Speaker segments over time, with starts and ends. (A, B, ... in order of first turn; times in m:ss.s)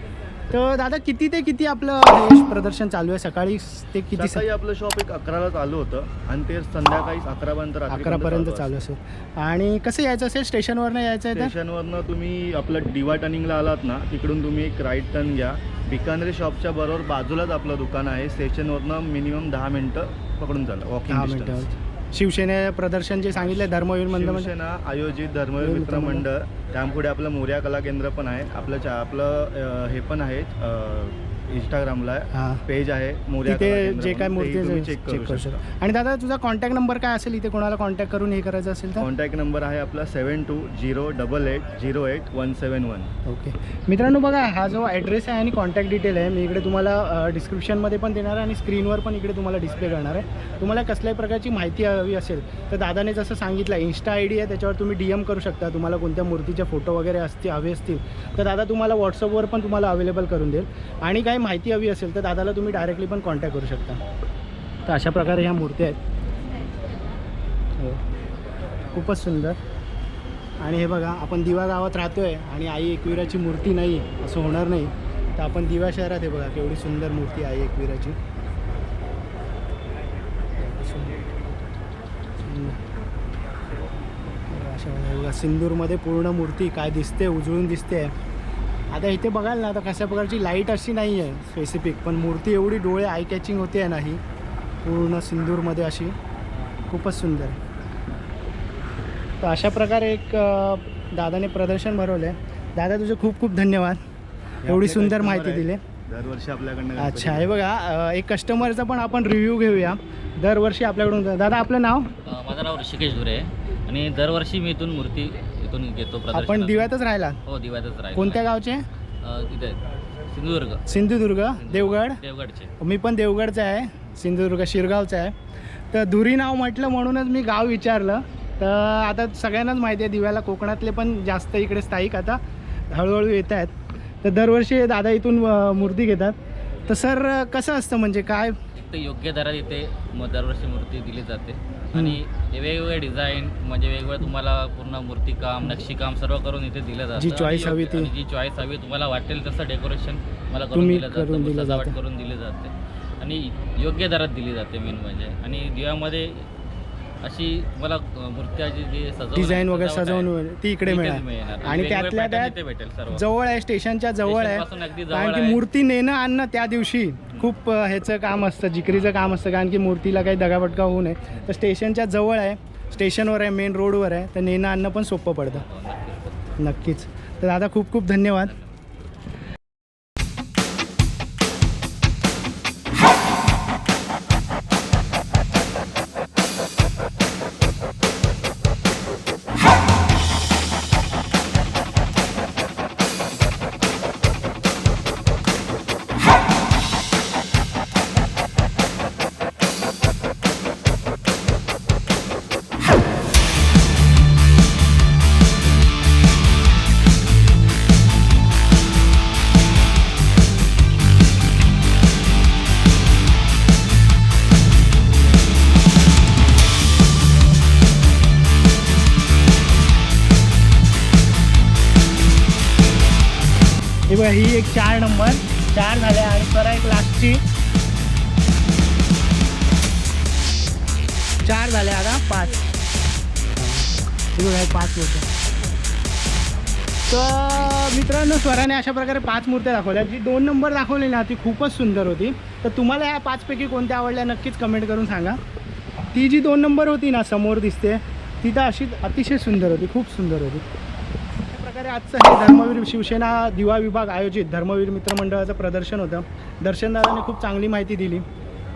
0:00.5-0:04.4 A
0:04.1-0:08.8 B
0:07.9-0:11.5 A
0:11.3-0:21.7 B
0:21.1-0:24.5 A
0:24.1-0:35.6 B
0:25.6-0:26.2 A
0:32.3-0:32.6 A
0:33.4-0:39.1 A
0:39.0-0:43.1 B
0:43.2-1:04.0 A
1:04.8-1:06.0 A
1:08.9-1:09.6 A
1:10.6-1:18.2 A
1:20.6-1:21.3 A
1:22.4-1:22.8 A
1:24.5-1:28.1 A
1:28.9-1:34.2 A
1:34.8-1:36.1 A
1:36.9-1:37.6 A
1:39.4-1:44.0 A
1:44.6-1:47.5 B
1:44.6-1:45.8 A
1:47.0-1:52.1 A
1:52.2-1:56.9 C
1:56.3-1:57.4 A
1:57.4-1:58.4 C
1:58.1-1:58.8 A
1:59.2-2:00.8 C
2:00.9-2:02.2 A
2:01.5-2:02.7 C
2:02.8-2:05.3 A
2:05.9-2:12.4 A
2:12.9-2:13.7 A
2:14.2-2:16.3 A
2:16.9-2:18.6 A
2:18.8-2:36.5 C
2:21.9-2:22.2 A
2:27.2-2:28.1 A
2:30.7-2:32.0 A
2:37.2-2:40.3 C
2:39.3-2:42.5 A
2:40.8-2:43.2 C
2:43.1-2:55.6 A
2:44.2-2:45.6 C
2:55.5-2:56.4 C
2:56.6-2:58.6 A
3:44.1-3:47.4 A
3:51.4-3:52.6 A
3:53.6-3:55.2 A
3:57.1-4:05.4 A
4:06.1-4:10.6 A
4:11.5-4:18.2 A